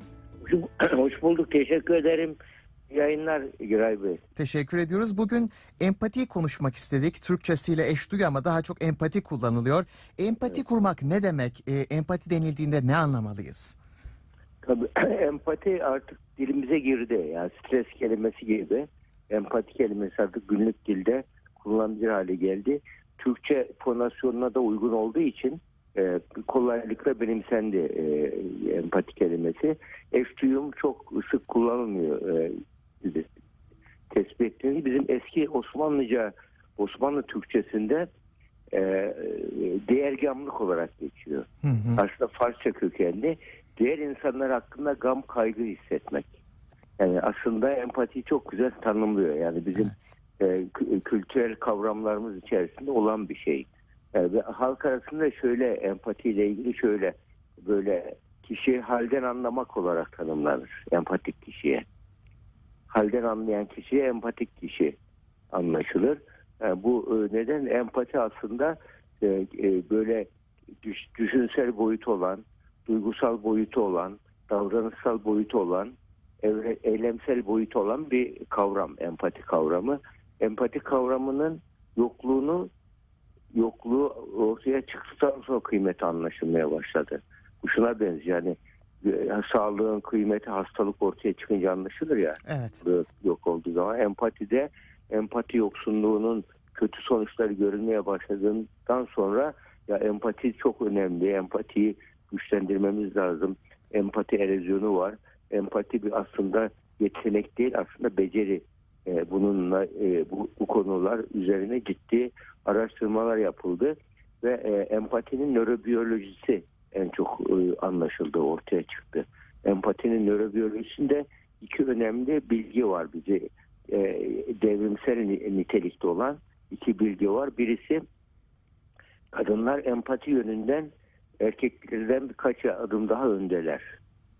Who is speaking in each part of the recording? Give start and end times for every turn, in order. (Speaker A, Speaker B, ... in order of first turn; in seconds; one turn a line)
Speaker A: 0.4-2.4
Speaker A: 2.9-4.2
Speaker B: 4.3-13.8
Speaker A: 14.6-33.3
Speaker A: 34.1-38.1
Speaker A: 38.7-46.3
Speaker B: 41.6-42.0
Speaker A: 47.0-61.8
Speaker A: 62.9-65.0
Speaker A: 65.5-70.3
Speaker A: 70.8-82.7
Speaker A: 83.5-128.0
Speaker B: 92.5-92.8
Speaker A: 129.3-133.8